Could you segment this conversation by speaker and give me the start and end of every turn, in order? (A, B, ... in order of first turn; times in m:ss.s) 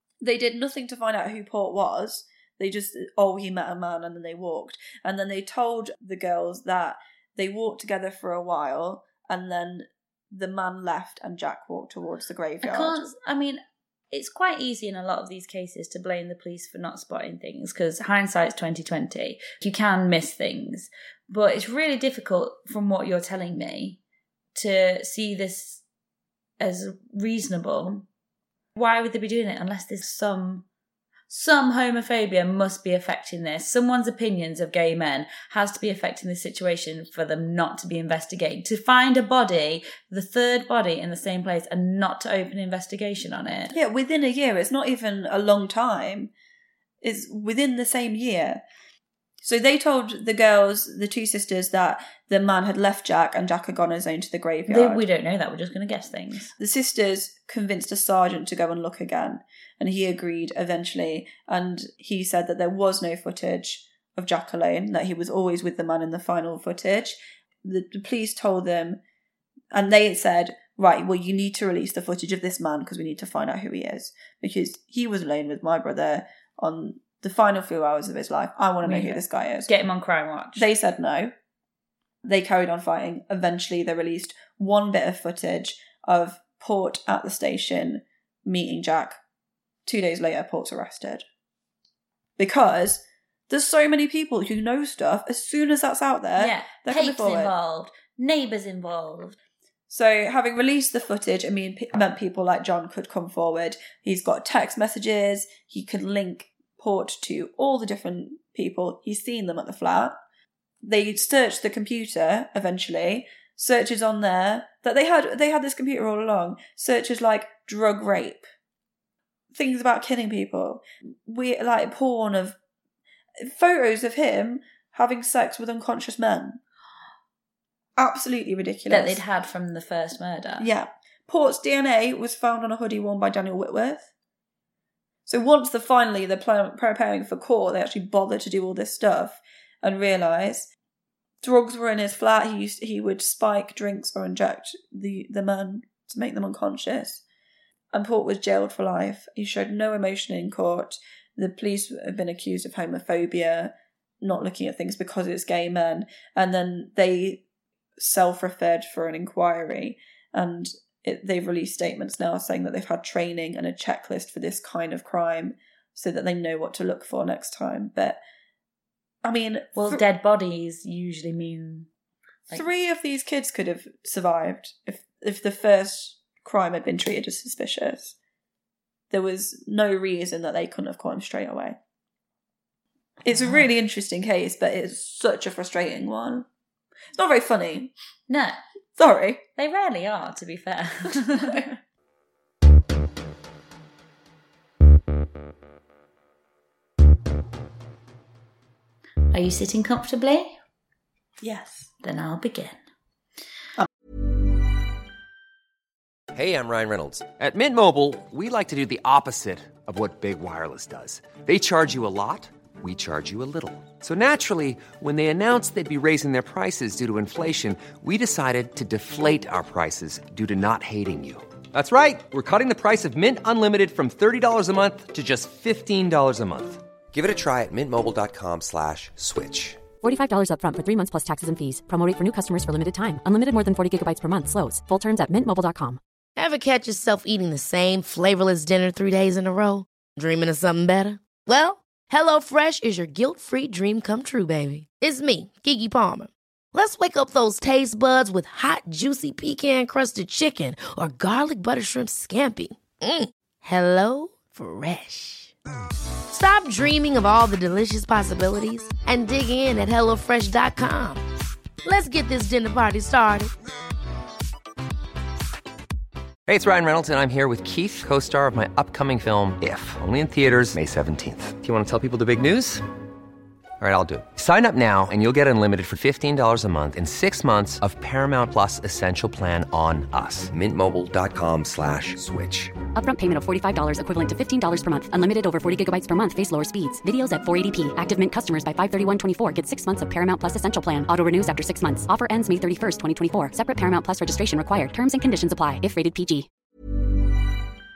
0:00.2-0:13.1 A
0:12.6-0:24.0 B
0:24.6-0:25.8 B
0:26.6-0:28.0 B
0:28.8-0:30.7 B
0:31.3-0:43.7 B
0:43.7-0:46.3 A
0:47.0-0:48.6 A
0:49.4-0:55.0 A
0:54.7-0:56.5 B
0:56.6-1:09.0 A
1:09.7-1:19.7 A
1:18.8-1:20.7 B
1:20.6-1:21.3 A
1:22.2-1:29.2 A
1:29.9-1:31.2 A
1:32.4-1:37.5 A
1:36.4-1:39.4 B
1:39.9-1:50.2 A
1:50.8-1:58.5 A
1:59.5-2:02.6 A
2:03.4-2:06.6 A
2:08.0-2:09.2 A
2:08.9-2:10.7 B
2:10.6-2:14.1 A
2:15.3-2:20.7 A
2:21.4-2:27.2 A
2:27.9-2:37.4 A
2:38.0-2:48.2 A
2:49.2-2:50.0 A
2:49.8-2:51.9 B
2:52.5-2:58.2 A
2:59.1-3:01.8 A
3:03.2-3:06.5 A
3:07.2-3:07.9 A
3:08.3-3:08.6 B
3:09.0-3:09.4 A
3:09.6-3:11.7 B
3:11.3-3:11.7 A
3:19.3-3:20.6 B
3:21.4-3:21.9 A
3:22.0-3:22.8 B
3:26.3-3:49.9 C
3:50.0-3:56.0 D
3:56.4-4:15.6 E
4:16.3-4:21.2 E
4:21.8-4:23.5 E
4:26.5-4:32.9 C
4:33.8-4:42.8 C
4:42.9-4:56.5 D